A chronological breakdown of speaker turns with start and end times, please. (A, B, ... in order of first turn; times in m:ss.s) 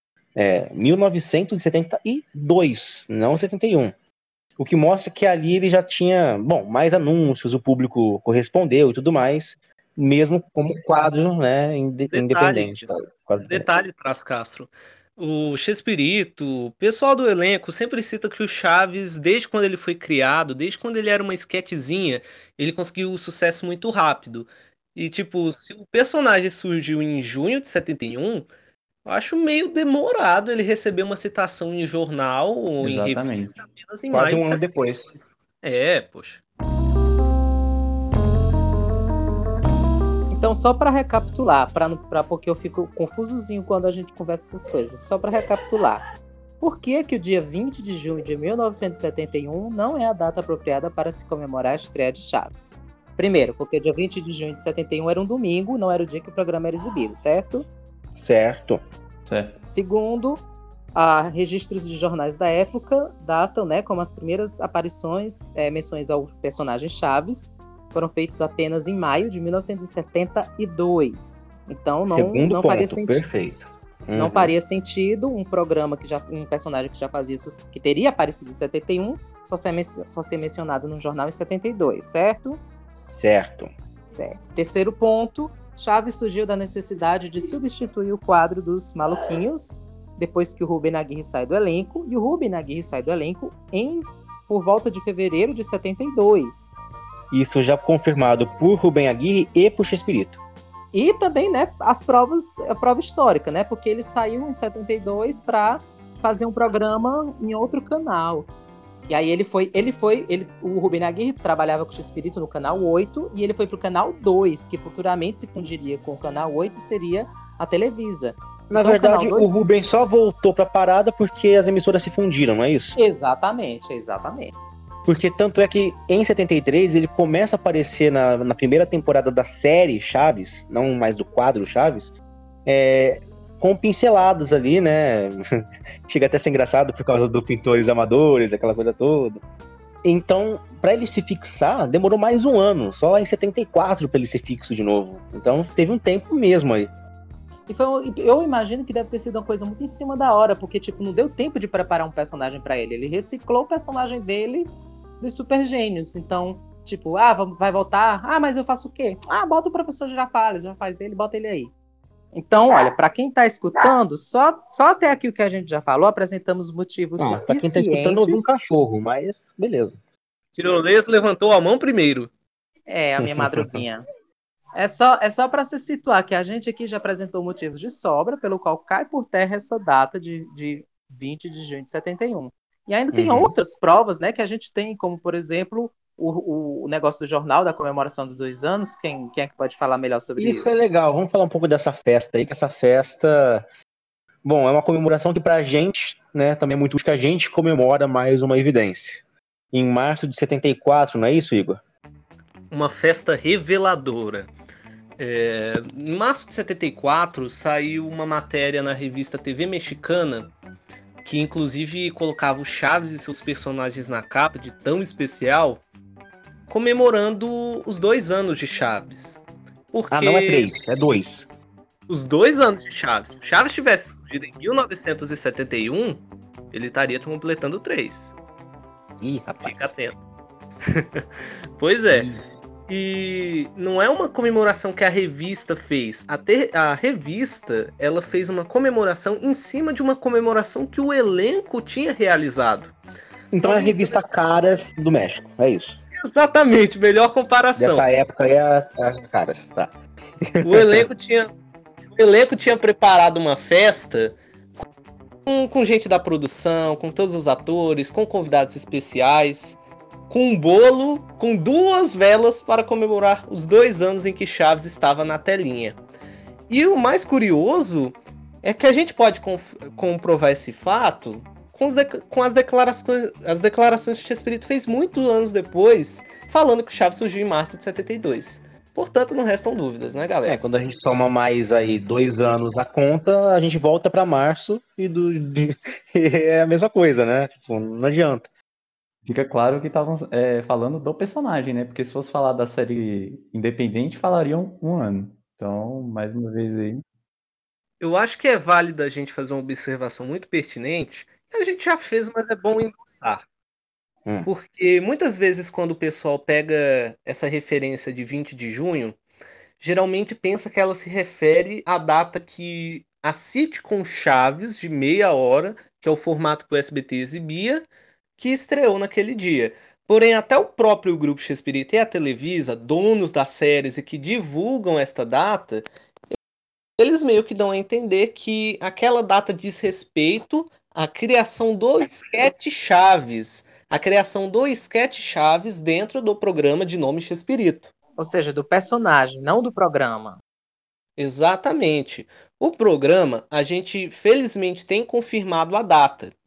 0:00.4-0:03.9 A
0:04.6-0:13.6 A
0:12.1-0:12.9 B
0:13.5-0:28.5 B
0:29.0-0:36.4 B
0:32.8-0:33.5 C
0:34.1-0:35.1 A
0:40.3-0:46.0 D
0:46.6-0:52.6 D
0:53.2-0:57.6 D
0:58.2-0:58.8 A
0:59.2-0:59.6 C
0:59.7-1:00.4 D
1:00.9-1:13.2 D
1:12.1-1:14.5 A
1:14.1-1:22.6 D
1:23.1-1:23.7 A
1:24.1-1:36.7 D
1:37.3-1:40.4 A
1:40.9-1:48.5 D
1:49.1-1:59.6 D
1:58.7-2:03.0 A
2:03.0-2:04.5 D
2:05.0-2:12.1 A
2:12.6-2:19.4 A
2:20.0-2:26.9 A
2:27.7-2:41.7 D
2:42.3-2:48.5 D
2:47.2-2:50.0 A
2:50.5-2:52.3 B
2:52.9-2:54.0 D
2:53.2-2:53.8 A
2:54.8-3:10.8 D
3:03.1-3:03.5 A
3:10.4-3:13.6 A
3:14.4-3:21.8 A
3:22.7-3:24.5 B
3:25.2-3:30.5 B
3:31.2-3:35.8 B
3:36.7-3:39.4 B
3:39.9-3:40.7 B
3:40.1-3:41.5 A
3:42.1-3:48.3 B
3:49.2-3:49.9 A
3:49.6-3:50.2 B
3:50.8-3:51.2 B
3:51.8-3:52.3 B
3:52.1-3:52.4 A
3:52.9-4:02.9 B
4:03.5-4:06.0 A
4:03.6-4:04.4 B
4:06.2-4:08.0 B
4:07.8-4:09.9 A
4:10.4-4:11.0 A
4:10.6-4:11.5 B
4:12.1-4:14.4 B
4:15.4-4:19.8 B
4:20.3-4:26.0 B
4:26.7-4:40.6 B
4:40.4-4:48.5 A
4:49.2-4:57.0 C
4:58.0-5:03.4 B
5:04.4-5:09.2 B
5:09.8-5:17.9 B
5:18.4-5:25.8 B
5:27.0-5:37.9 B
5:38.2-5:40.4 D
5:41.2-5:46.3 B